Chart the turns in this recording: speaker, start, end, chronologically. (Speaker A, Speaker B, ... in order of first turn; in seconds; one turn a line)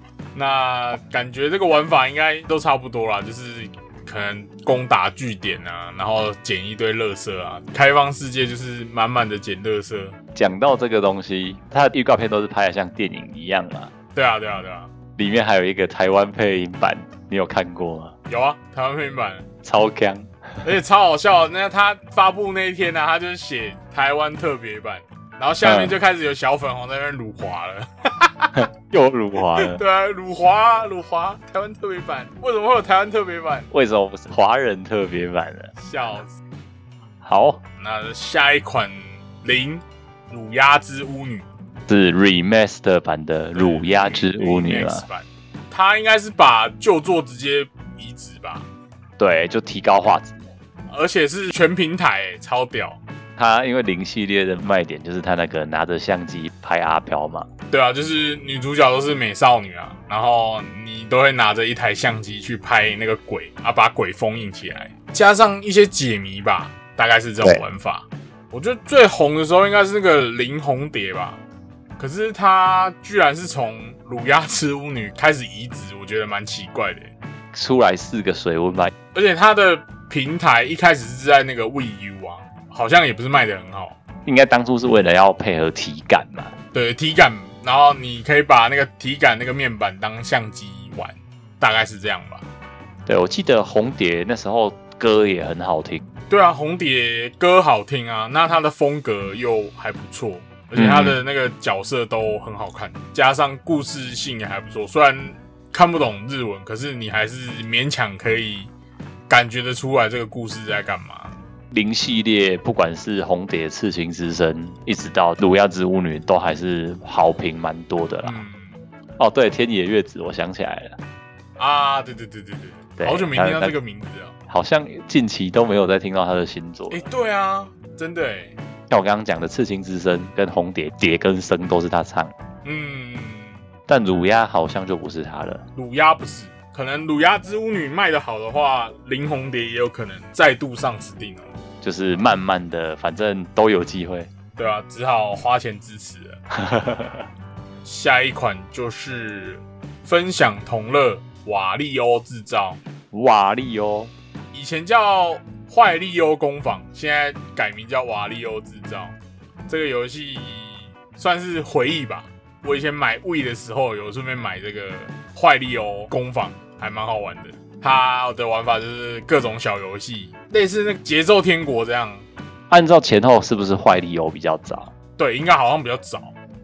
Speaker A: 0.3-10.2
Speaker B: 10.3-13.9
Speaker A: 14.1-14.9
Speaker B: 15.2-18.1
Speaker A: 18.3-19.4
Speaker B: 19.6-20.6
Speaker A: 20.6-28.6
Speaker B: 25.6-25.9
Speaker B: 28.6-29.8
Speaker A: 29.5-33.7
Speaker B: 33.7-35.7
Speaker A: 35.8-36.4
Speaker B: 37.2-37.6
Speaker A: 37.8-41.5
Speaker B: 41.9-45.0
Speaker A: 43.5-48.7
Speaker B: 49.2-50.5
Speaker A: 50.9-53.0
Speaker B: 53.4-57.5
Speaker A: 57.7-71.4
Speaker A: 72.0-77.1
Speaker B: 77.5-78.9
Speaker A: 79.1-84.0
Speaker B: 84.2-86.5
Speaker A: 86.7-92.4
Speaker B: 93.0-96.0
Speaker A: 96.3-108.7
Speaker B: 100.7-101.2
Speaker A: 109.3-111.3
Speaker B: 111.7-118.4
Speaker A: 118.2-118.8
Speaker B: 119.2-121.0
Speaker A: 121.6-124.3
Speaker B: 123.0-123.7
Speaker B: 124.5-127.0
Speaker A: 126.9-128.6
Speaker B: 128.9-132.3
Speaker A: 132.6-133.6
Speaker B: 133.9-135.6
Speaker A: 135.8-141.5
Speaker B: 141.8-144.3
Speaker A: 144.6-146.4
Speaker B: 146.5-147.2
Speaker A: 147.8-152.8
Speaker B: 153.1-154.1
Speaker A: 154.5-159.2
Speaker A: 159.7-172.2
Speaker B: 172.7-174.9
Speaker A: 175.2-176.3